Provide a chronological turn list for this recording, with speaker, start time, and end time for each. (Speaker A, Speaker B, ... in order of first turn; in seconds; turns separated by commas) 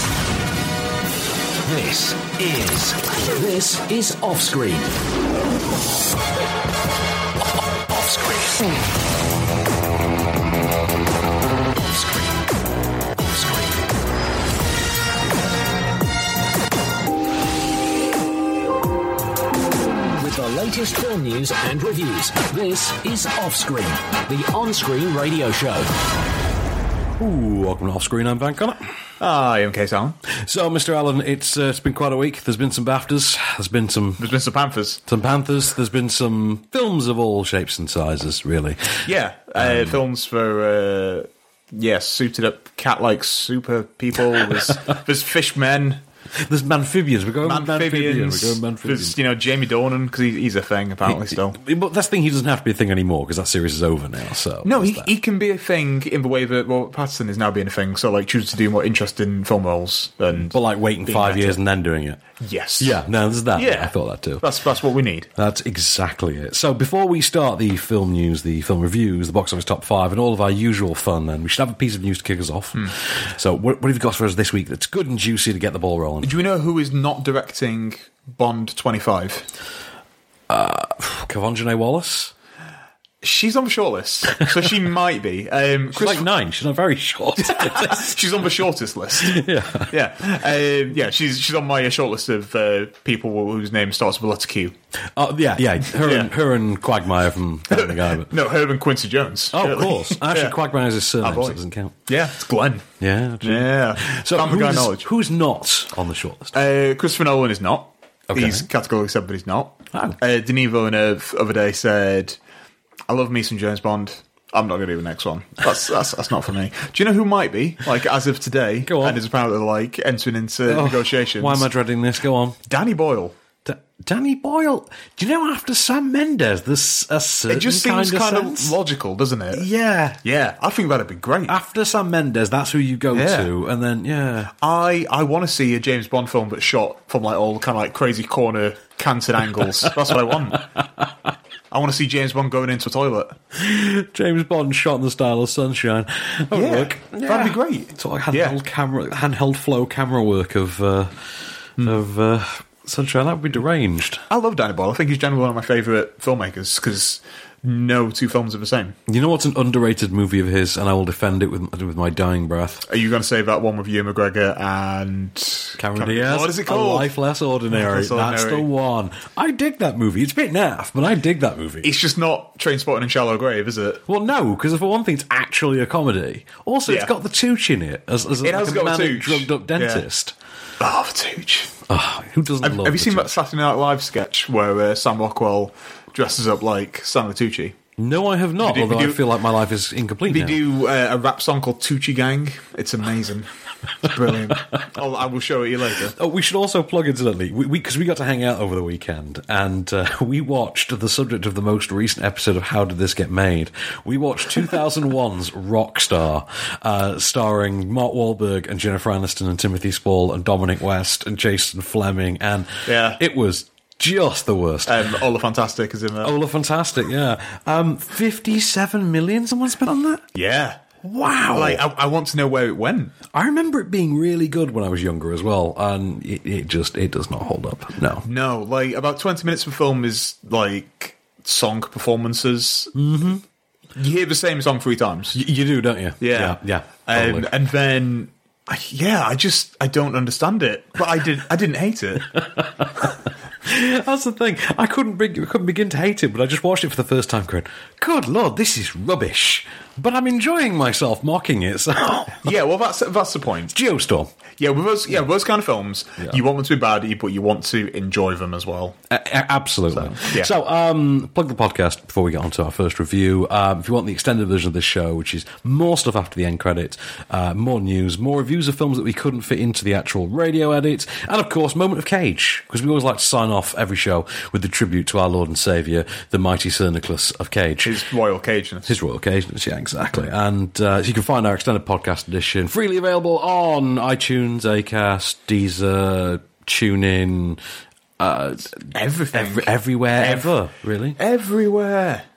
Speaker A: 1.6-4.9, Speaker A: 7.7-8.7, Speaker A: 11.7-12.4, Speaker A: 13.2-13.8, Speaker A: 20.1-25.9, Speaker B: 27.2-28.8, Speaker C: 29.2-30.2, Speaker B: 30.4-34.3, Speaker C: 34.2-35.0, Speaker B: 35.1-40.0, Speaker C: 39.0-46.0, Speaker B: 46.4-49.2, Speaker C: 47.4-51.6, Speaker B: 51.1-55.1, Speaker C: 54.6-61.6, Speaker B: 60.5-62.2, Speaker C: 62.4-63.0, Speaker B: 62.8-64.5, Speaker C: 63.5-65.3, Speaker B: 65.4-76.4, Speaker C: 76.2-79.5, Speaker B: 80.5-82.3, Speaker C: 83.2-86.3, Speaker B: 85.9-88.2, Speaker C: 87.5-94.8, Speaker B: 89.2-89.9, Speaker B: 95.2-98.3, Speaker C: 95.9-96.3, Speaker C: 97.7-100.6, Speaker B: 99.5-102.0, Speaker C: 101.2-102.9, Speaker B: 103.0-106.5, Speaker C: 103.4-105.1, Speaker C: 106.5-112.4, Speaker B: 108.3-108.7, Speaker C: 113.1-121.7, Speaker B: 118.9-119.2, Speaker B: 120.7-122.6, Speaker C: 122.7-123.4, Speaker B: 123.7-128.8, Speaker C: 127.5-129.7, Speaker B: 129.5-130.2, Speaker C: 130.2-131.6, Speaker B: 131.5-134.5, Speaker C: 133.1-133.5, Speaker C: 134.6-140.7, Speaker C: 141.7-143.4, Speaker B: 143.6-151.2, Speaker C: 146.5-148.6, Speaker B: 151.8-154.2, Speaker C: 154.3-158.9, Speaker B: 159.1-162.8, Speaker C: 162.9-167.1, Speaker B: 165.8-171.9, Speaker C: 167.7-168.7, Speaker C: 171.8-174.0, Speaker B: 174.1-180.3, Speaker C: 176.9-177.1, Speaker C: 178.4-180.1, Speaker C: 180.8-181.7, Speaker B: 181.9-183.3, Speaker C: 182.6-187.8, Speaker B: 188.0-190.6, Speaker C: 188.6-189.2, Speaker C: 190.3-193.5, Speaker C: 194.0-196.2, Speaker B: 196.1-215.1, Speaker C: 212.9-213.2, Speaker C: 214.9-216.3, Speaker B: 216.2-220.3, Speaker C: 220.3-220.8, Speaker B: 221.0-221.8, Speaker C: 221.5-223.2, Speaker B: 223.3-228.3, Speaker C: 228.2-232.9, Speaker B: 232.9-233.4, Speaker C: 234.0-235.4, Speaker B: 235.3-237.5, Speaker C: 236.2-242.3, Speaker B: 242.3-243.1, Speaker B: 243.7-252.4, Speaker C: 252.4-253.7, Speaker B: 253.7-254.3, Speaker C: 254.6-259.0, Speaker B: 259.1-278.0, Speaker C: 259.9-260.5, Speaker C: 277.8-278.9, Speaker B: 278.9-287.6, Speaker B: 288.2-291.2, Speaker C: 288.9-290.5, Speaker C: 291.2-292.3